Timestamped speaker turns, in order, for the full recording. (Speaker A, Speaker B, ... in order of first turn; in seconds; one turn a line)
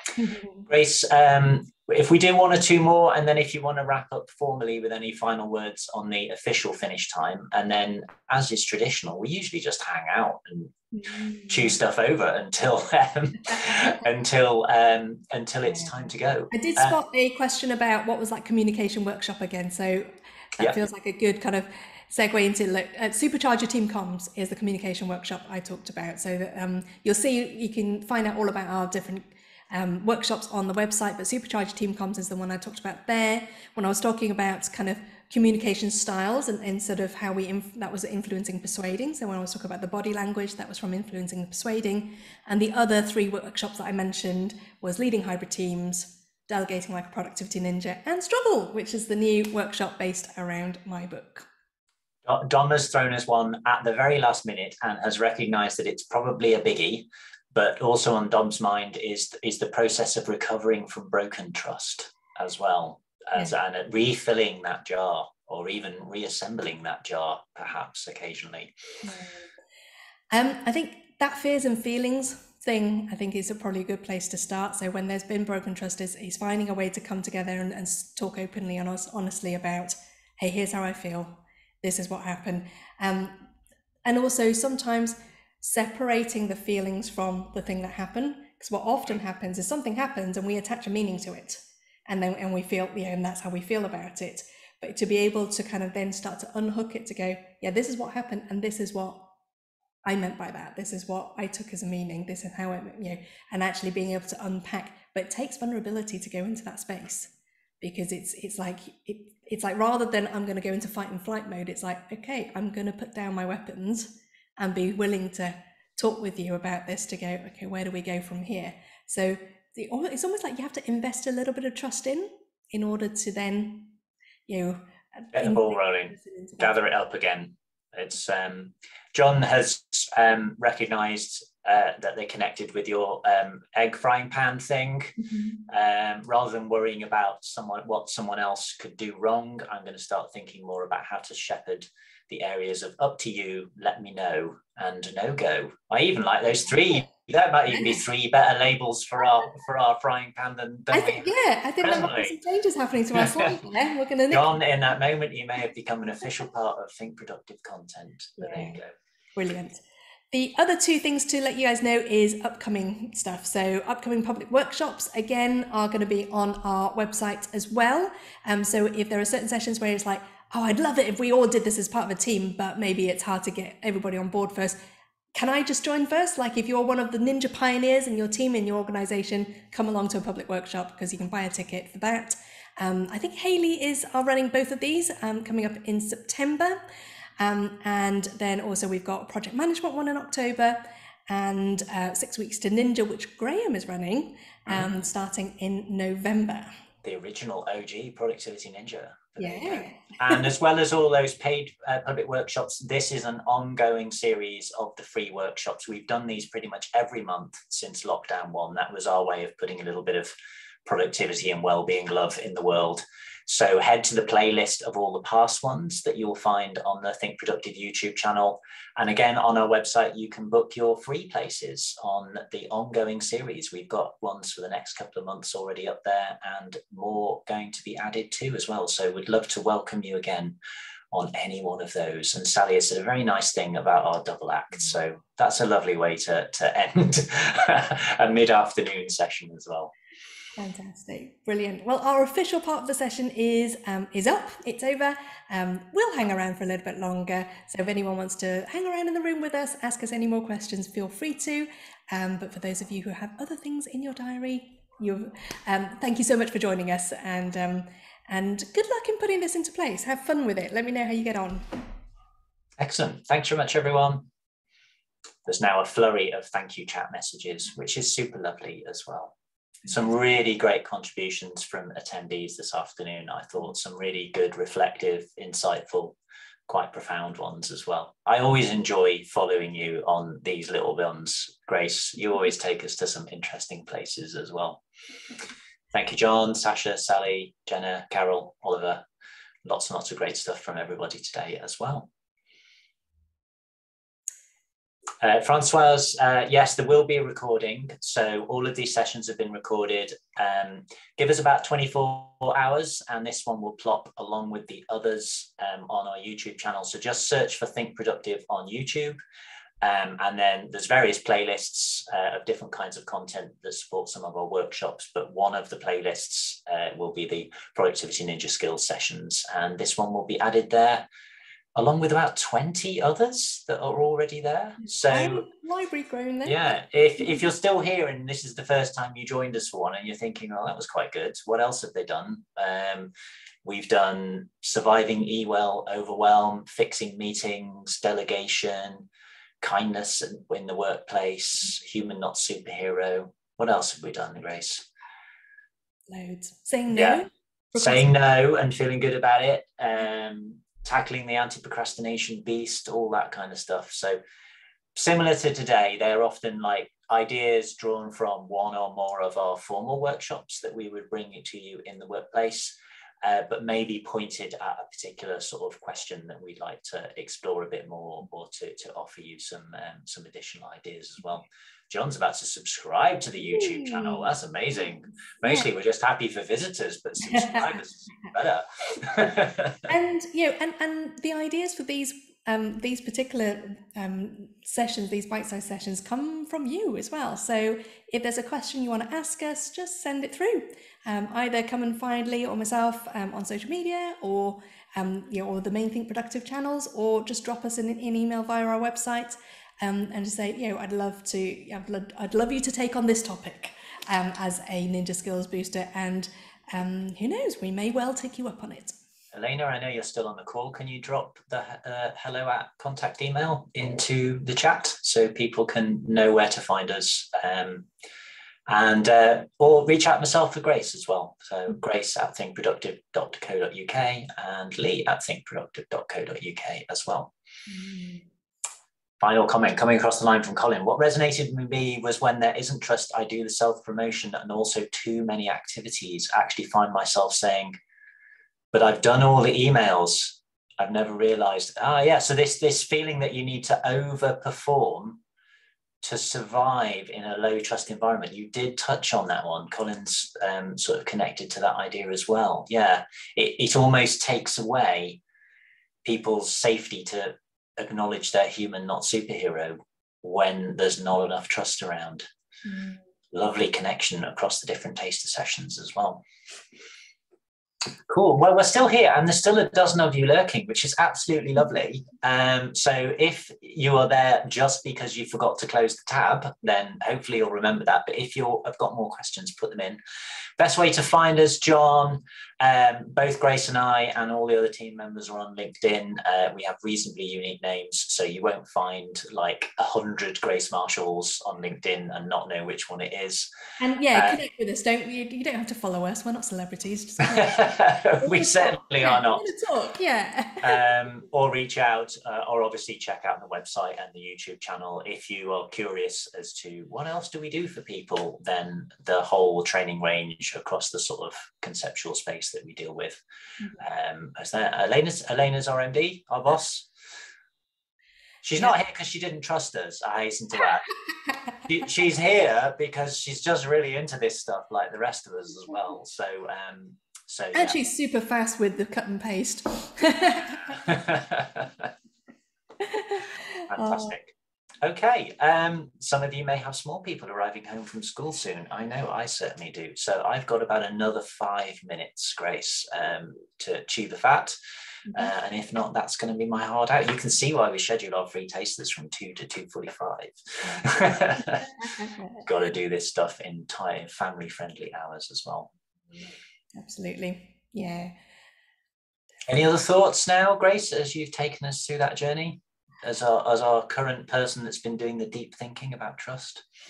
Speaker A: 0.2-0.7
Speaker B: 0.7-10.7
Speaker A: 10.9-11.7
Speaker B: 11.5-17.0
Speaker A: 16.5-51.5
Speaker B: 52.2-68.7
Speaker A: 69.0-69.5
Speaker A: 70.3-83.5
Speaker A: 84.0-99.3
Speaker A: 100.0-123.9
Speaker A: 124.5-126.7
Speaker B: 125.3-151.3
Speaker A: 135.2-135.6
Speaker A: 150.9-154.6
Speaker B: 151.8-152.3
Speaker B: 153.1-153.5
Speaker B: 154.3-158.9
Speaker A: 158.4-158.8
Speaker A: 159.3-159.8
Speaker A: 160.3-174.8
Speaker A: 175.3-186.8
Speaker A: 187.4-196.7
Speaker B: 197.0-210.3
Speaker A: 199.4-200.4
Speaker B: 210.8-230.6
Speaker B: 231.1-239.9
Speaker A: 240.6-261.9
Speaker B: 262.8-264.3
Speaker B: 265.4-269.3
Speaker B: 269.9-276.2
Speaker B: 276.7-284.8
Speaker B: 285.9-289.0
Speaker B: 289.6-292.1
Speaker B: 295.2-309.2
Speaker B: 309.8-321.1
Speaker B: 321.7-325.4
Speaker A: 324.8-326.6
Speaker B: 326.4-333.1
Speaker B: 333.6-339.1
Speaker B: 339.6-344.9
Speaker A: 346.1-348.1
Speaker B: 346.9-347.2
Speaker B: 347.8-354.2
Speaker B: 354.9-379.9
Speaker A: 373.7-374.2
Speaker A: 377.2-377.6
Speaker A: 379.9-408.9
Speaker B: 409.3-417.9
Speaker B: 418.7-427.3
Speaker A: 427.7-428.2
Speaker B: 429.2-437.8
Speaker B: 438.7-445.2
Speaker B: 446.0-455.2
Speaker B: 456.0-462.3
Speaker B: 463.3-466.2
Speaker B: 468.1-480.0
Speaker B: 480.6-493.5
Speaker A: 493.8-500.8
Speaker B: 494.1-494.4
Speaker B: 497.2-499.5
Speaker B: 500.6-513.2
Speaker B: 513.8-516.9
Speaker B: 518.4-520.9
Speaker B: 521.6-527.8
Speaker A: 527.5-530.8
Speaker B: 530.9-531.9
Speaker A: 532.8-534.1
Speaker B: 533.7-544.6
Speaker B: 545.1-551.7
Speaker A: 552.0-552.4
Speaker B: 552.4-555.7
Speaker A: 556.7-558.1
Speaker B: 559.5-566.6